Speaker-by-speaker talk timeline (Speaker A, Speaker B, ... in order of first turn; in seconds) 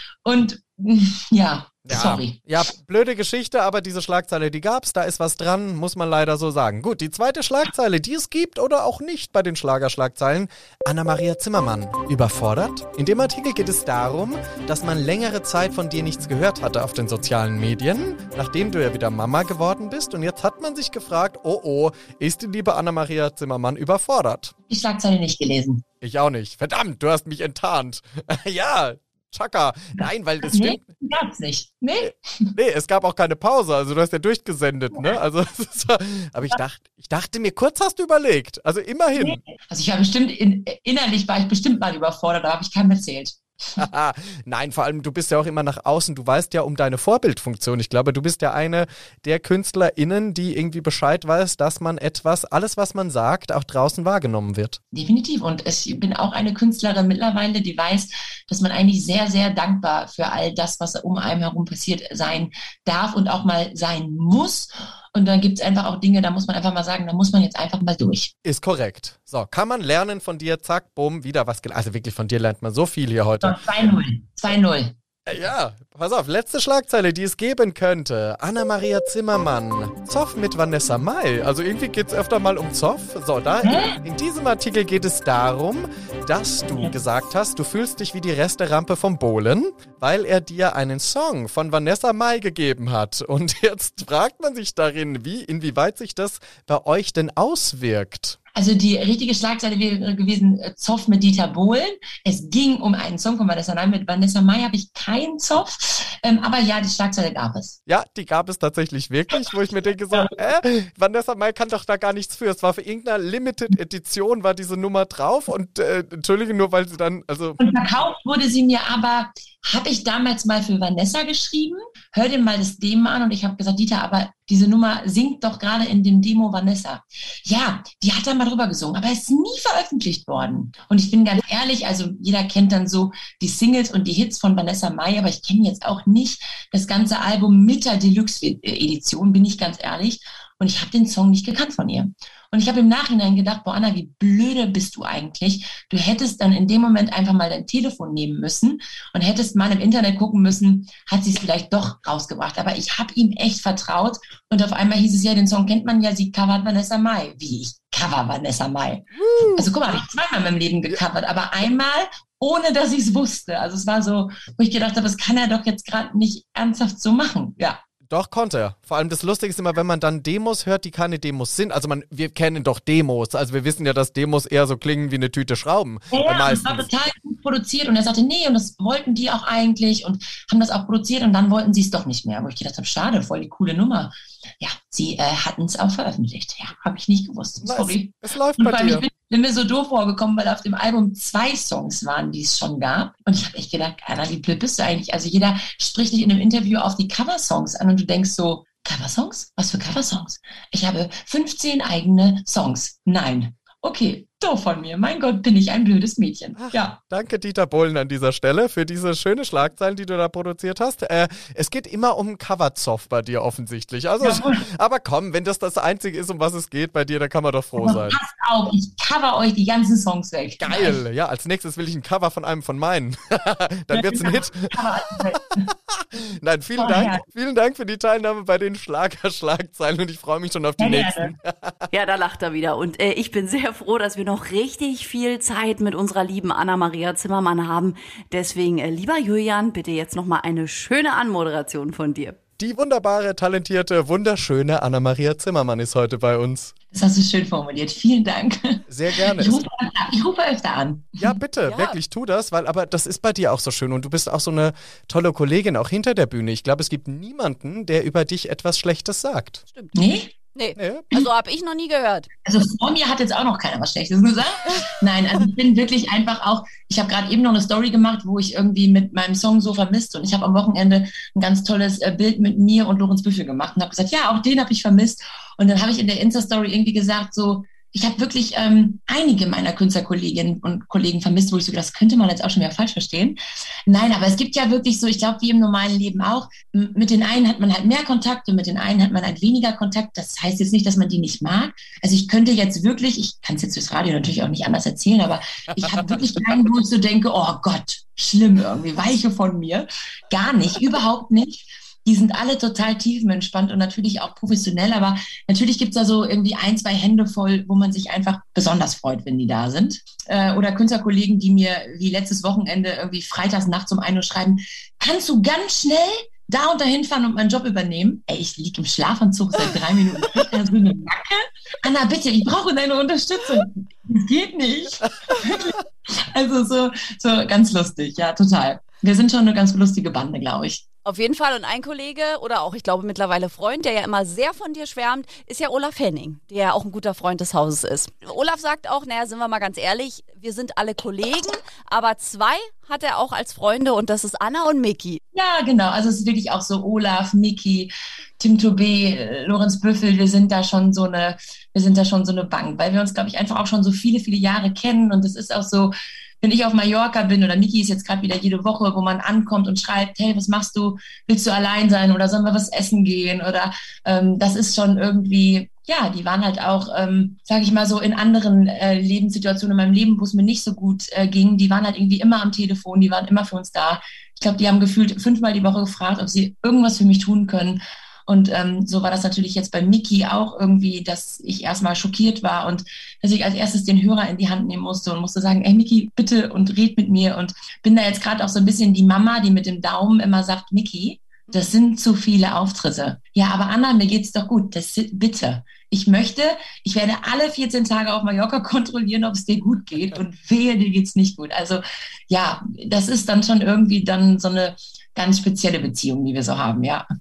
Speaker A: 0.2-2.5, 24.7-25.8, 30.4-32.5, 39.2-43.8, 54.9-68.3, 73.4-74.9, 83.6-84.0, 98.5-107.8, 117.6-167.8, 176.1-206.9, 214.2-214.6, 217.8-221.0, 223.9-225.7, 226.8-227.2, 230.8-231.3, 246.9-251.4, 259.9-260.3, 262.4-330.8, 345.3-407.1
Speaker B: 1.9-24.5, 26.0-30.8, 32.0-39.4, 43.8-54.8, 68.4-73.7, 75.3-98.4, 107.9-117.7, 159.2-159.7, 168.1-176.9, 187.6-189.1, 206.6-218.2, 220.6-224.8, 225.9-231.9, 242.6-246.7, 248.9-249.6, 251.2-259.6, 260.8-261.1, 295.8-296.2
Speaker C: 231.9-242.4, 251.7-252.0, 260.6-262.3, 331.1-345.2, 391.5-391.7